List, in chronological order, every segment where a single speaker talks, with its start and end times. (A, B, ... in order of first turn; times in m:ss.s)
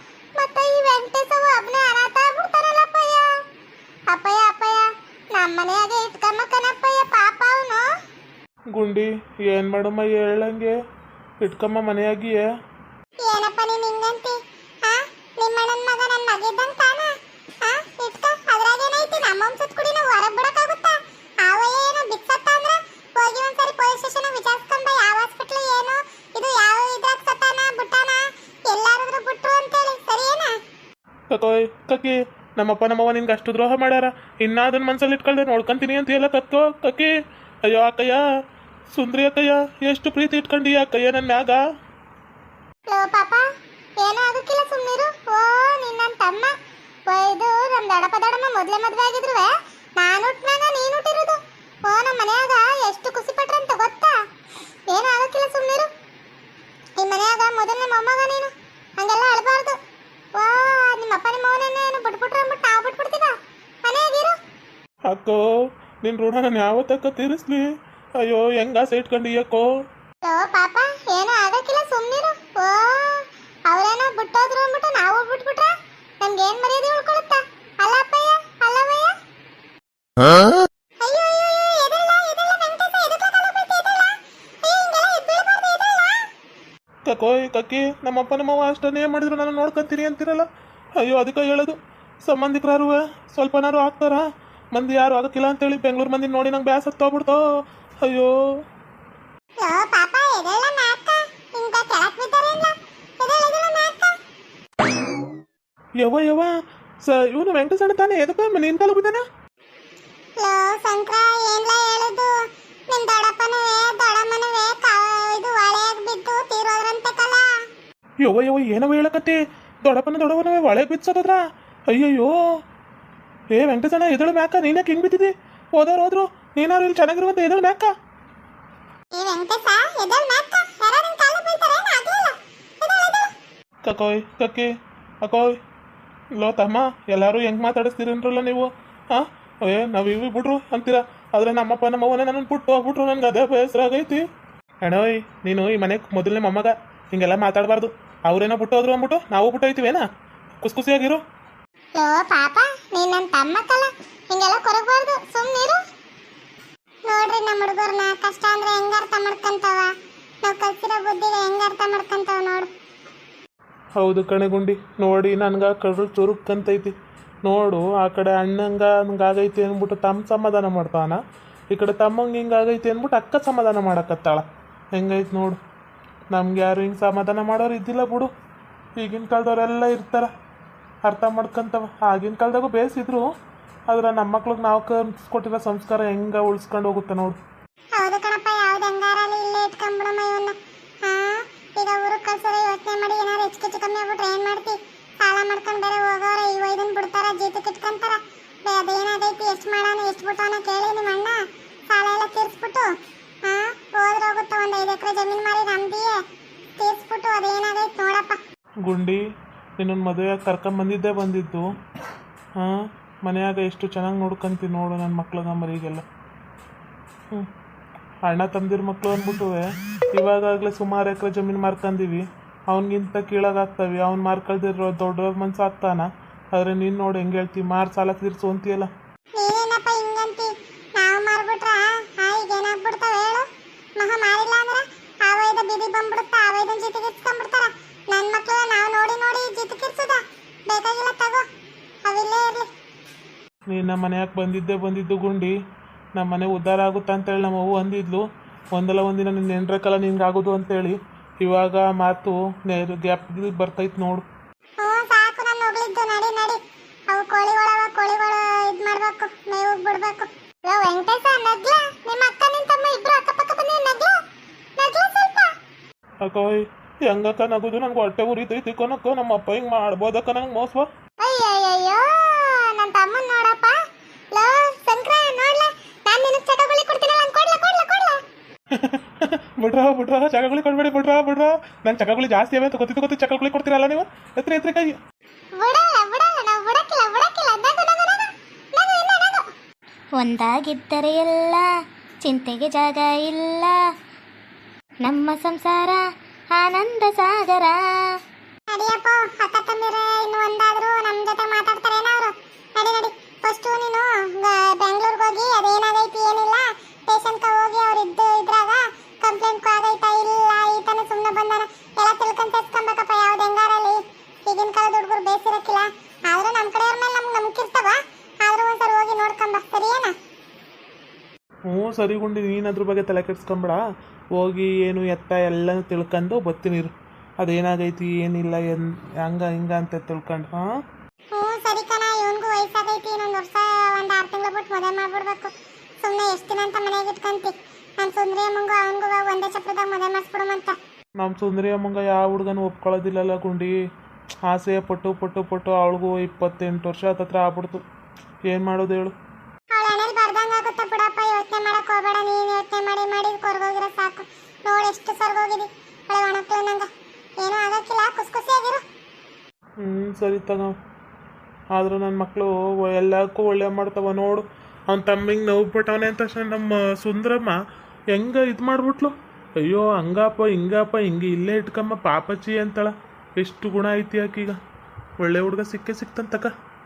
0:00.3-0:03.3 A
0:04.1-0:07.8 A
0:08.7-0:10.7 B
0:11.4-0:12.4 B
0:13.2-0:30.6 A
0:31.3-0:37.1 B
0:37.6-0:38.2 B
0:38.9-0:41.6 B
0:42.9-0:43.4 A
0:44.0-0:46.5 A
0:47.1-0:54.2 A
0:54.9-0:55.9 A
0:57.0-0:59.8 A
1:00.4-1:03.3 A
1:03.8-1:04.4 A
1:05.1-1:05.4 B
1:06.0-1:09.7 B
1:10.2-1:19.1 A
1:21.0-1:26.2 A
1:27.0-1:30.5 B
1:31.0-1:37.4 B
1:38.0-1:38.3 B
1:39.6-1:44.2 A
1:46.0-1:46.5 B
1:47.0-1:49.2 B
1:50.4-1:52.4 A
1:52.9-1:57.6 A
1:58.2-2:02.3 B
2:03.5-2:07.9 B
2:09.2-2:13.3 A
2:13.8-2:14.7 B
2:15.2-2:15.6 B
2:16.4-2:24.2 B
2:24.8-2:30.0 B
2:30.6-2:31.2 B
2:32.0-2:35.8 A
2:37.1-2:39.9 A
2:40.4-2:42.7 A
2:44.0-2:51.2 B
2:51.7-2:55.6 B
2:56.3-2:58.3 B
2:59.0-3:00.3 B
3:01.0-3:03.3 B
3:03.9-3:07.4 B
3:08.0-3:26.2 A
3:26.8-3:28.4 A
3:28.8-3:29.2 B
3:29.8-3:31.7 B
3:32.6-3:36.0 B
3:38.2-3:48.9 B
3:49.4-3:53.4 A
3:54.0-4:01.4 A
4:02.1-4:02.7 A
4:03.7-4:05.5 B
4:06.2-4:14.2 B
4:14.8-4:24.1 A
4:24.8-4:25.5 A
4:26.2-4:30.9 B
4:31.2-4:33.8 A
4:34.3-4:38.2 A
4:38.7-4:45.0 B
4:45.6-4:49.5 A
4:50.2-4:51.7 C
4:52.2-4:53.7 C
4:55.0-4:56.0 C
4:56.5-4:57.8 C
4:58.7-5:20.1 A
5:21.7-5:23.8 B
5:24.4-5:30.6 B
5:31.3-5:40.8 A
5:41.2-5:43.8 B
5:44.4-5:47.8 B
5:48.5-5:49.1 B
5:49.7-5:56.9 A
5:57.4-5:58.8 A
5:59.8-6:00.7 B
6:01.7-6:07.6 B
6:08.1-6:14.6 B
6:15.2-6:16.5 B